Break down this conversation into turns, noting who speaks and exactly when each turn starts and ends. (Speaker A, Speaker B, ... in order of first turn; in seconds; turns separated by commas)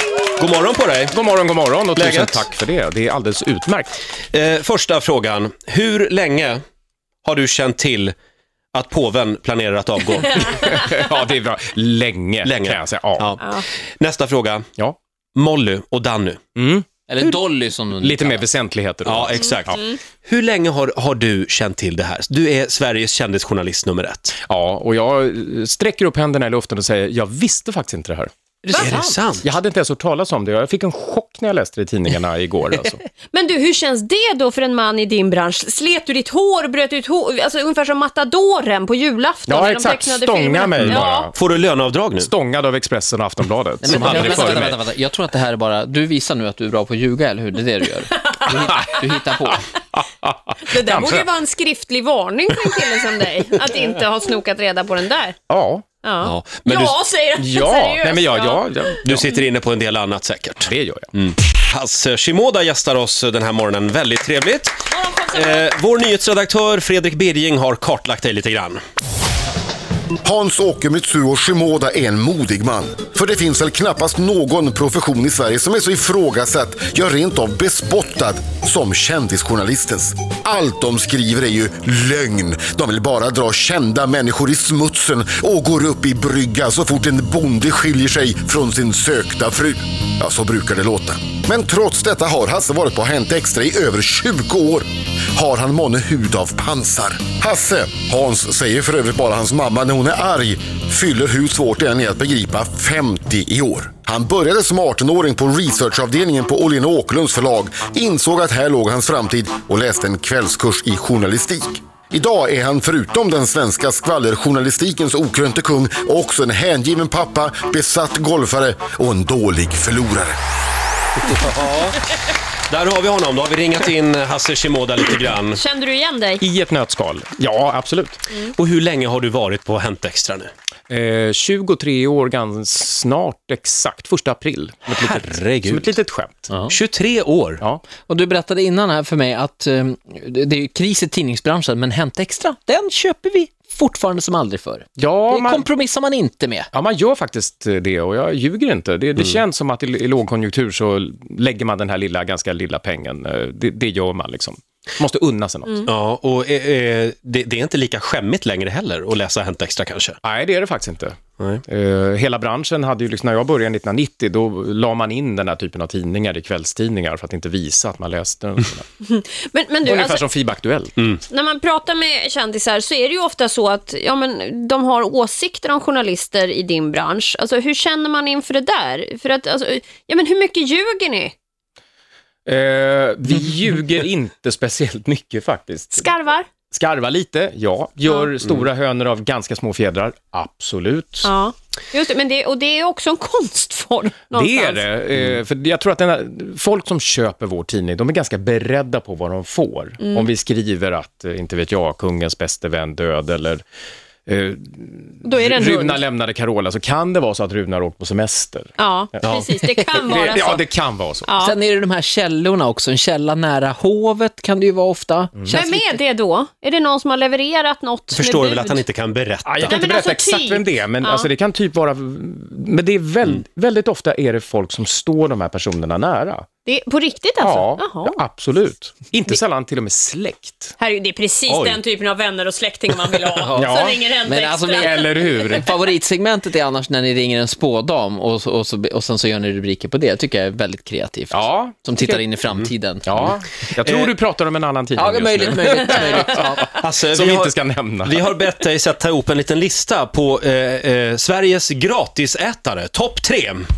Speaker A: 0.4-1.2, Speaker B: 1.1-4.0, Speaker A: 2.0-2.5, Speaker A: 4.3-6.6, Speaker A: 7.2-8.2, Speaker A: 8.7-10.5, Speaker B: 10.3-13.4, Speaker A: 12.4-14.7, Speaker A: 15.3-16.4, Speaker B: 16.6-17.2, Speaker C: 17.1-18.4, Speaker B: 18.0-19.8, Speaker A: 19.1-24.4, Speaker B: 24.4-28.3, Speaker C: 28.6-29.2, Speaker D: 28.7-29.0, Speaker A: 28.7-29.4, Speaker B: 29.4-33.0, Speaker D: 33.3-41.3, Speaker B: 39.5-41.3, Speaker A: 40.8-42.3, Speaker B: 42.2-44.8, Speaker C: 43.8-49.7, Speaker D: 48.2-49.0, Speaker B: 48.5-51.3, Speaker D: 50.7-55.4, Speaker B: 55.5-55.9, Speaker D: 56.0-58.8, Speaker A: 56.2-57.0, Speaker B: 57.4-59.3, Speaker A: 59.0-68.8, Speaker B: 60.7-61.1, Speaker D: 64.9-65.7, Speaker E: 70.2-120.4, Speaker A: 121.2-122.1, Speaker A: 122.7-125.6, Speaker D: 125.5-126.4, Speaker B: 126.4-128.2, Speaker A: 128.3-130.5, Speaker B: 130.9-136.5, Speaker A: 134.9-136.0, Speaker A: 136.7-137.6, Speaker C: 138.1-146.7, Speaker B: 145.0-145.6, Speaker B: 146.7-155.9, Speaker A: 155.8-160.2, Speaker B: 160.2-168.9, Speaker D: 169.1-170.2, Speaker B: 169.8-171.2, Speaker D: 171.3-181.3, Speaker B: 182.5-186.1, Speaker D: 186.0-186.5, Speaker B: 186.7-191.3, Speaker D: 191.2-194.8, Speaker B: 194.3-203.6, Speaker D: 200.0-200.3, Speaker B: 204.3-209.3, Speaker D: 205.2-206.0, Speaker D: 208.8-210.7, Speaker A: 209.2-209.5, Speaker B: 209.9-211.3, Speaker D: 211.3-211.6, Speaker C: 211.4-216.0, Speaker D: 215.5-218.8, Speaker A: 218.1-219.8, Speaker B: 219.4-226.5, Speaker D: 219.7-221.3, Speaker D: 226.7-228.2, Speaker B: 227.4-230.8, Speaker D: 230.8-235.7, Speaker B: 231.5-231.8, Speaker B: 233.5-234.0, Speaker C: 234.2-243.1, Speaker B: 234.8-235.7, Speaker B: 241.3-242.2, Speaker B: 243.1-246.4, Speaker A: 243.8-244.1, Speaker C: 245.0-246.8, Speaker A: 246.6-247.5, Speaker B: 247.0-248.3, Speaker A: 248.0-253.7